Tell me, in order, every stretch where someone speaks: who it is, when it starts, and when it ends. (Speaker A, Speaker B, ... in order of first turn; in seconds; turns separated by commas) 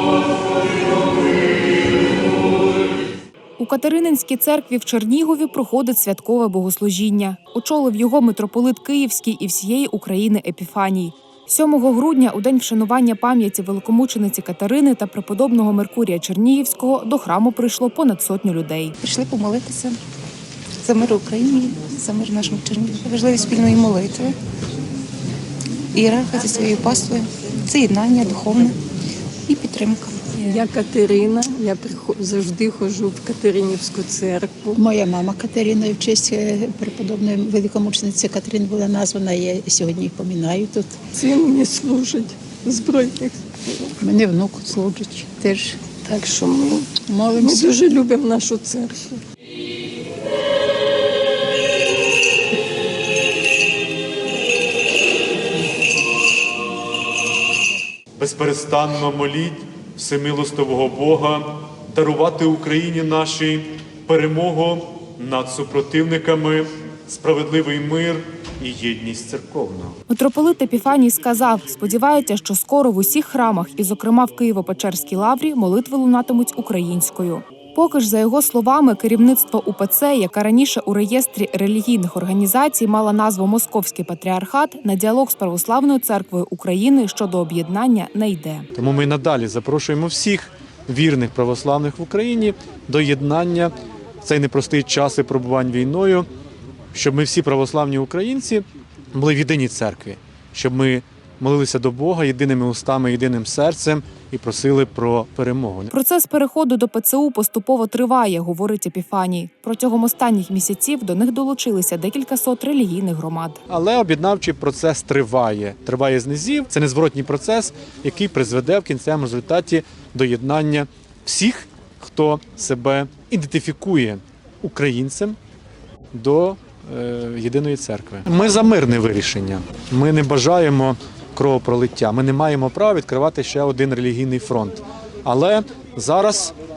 Speaker A: 3.6-18.9, Speaker B: 19.0-20.0, Speaker B: 20.8-24.4, Speaker B: 25.9-28.8, Speaker B: 29.4-30.4, Speaker C: 30.4-34.8, Speaker D: 34.7-41.0, Speaker C: 41.1-43.9, Speaker D: 44.0-45.9, Speaker C: 46.0-49.2, Speaker D: 47.0-47.8, Speaker E: 58.2-70.0, Speaker A: 70.1-88.7, Speaker E: 88.7-96.3, Speaker E: 96.9-105.9, Speaker A: 105.9-113.6, Speaker E: 113.7-125.4, Speaker E: 126.1-136.5